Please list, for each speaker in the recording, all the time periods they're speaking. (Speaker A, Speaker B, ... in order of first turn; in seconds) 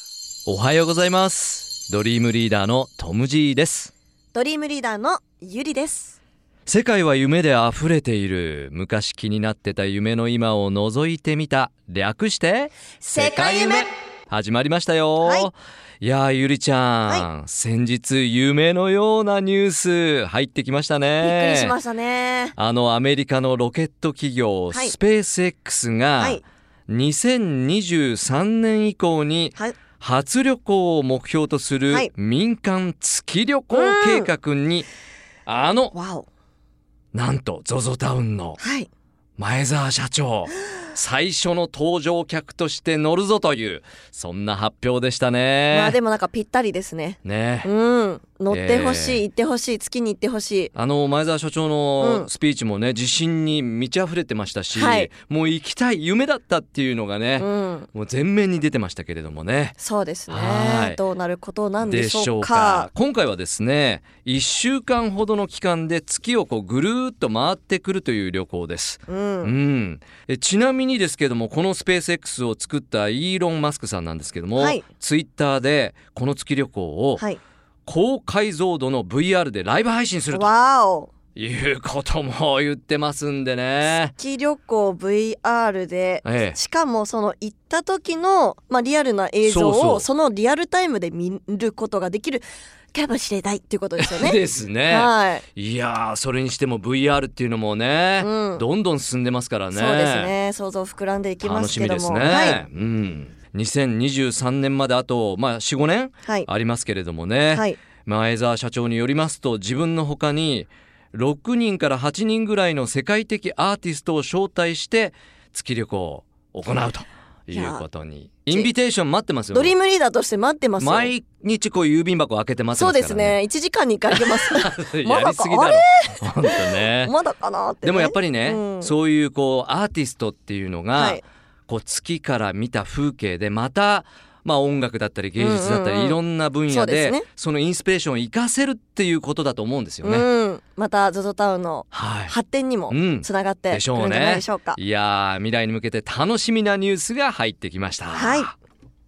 Speaker A: 0.5-3.9, 6.7-21.7, 22.6-34.9, 35.5-35.9, 37.1-38.6, 39.4-46.0, 47.2-47.7, 48.5-49.2, 50.7-61.0, 61.8-77.2, 77.8-80.5, 81.3-84.1, 86.2-86.6, 89.4-90.1, 94.0-100.3, 101.4-119.7, 120.8-123.4, 124.1-127.1, 127.8-140.3, 141.9-142.3, 142.9-148.5
Speaker B: 4.3-6.2, 13.0-13.9, 15.2-15.5, 21.2-22.5, 33.7-34.3, 35.9-36.3, 38.6-38.9, 45.7-50.7, 52.0-52.3, 54.7-55.1, 57.4-57.9, 59.8-62.9, 69.1-69.5, 74.5-74.8, 80.3-81.1, 84.1-95.4, 98.2-98.6, 99.7-102.6, 107.5-107.8, 117.5-117.8, 119.5-121.1, 122.8-128.9, 130.9-131.2, 135.4-137.2, 140.0-144.8, 148.1-148.5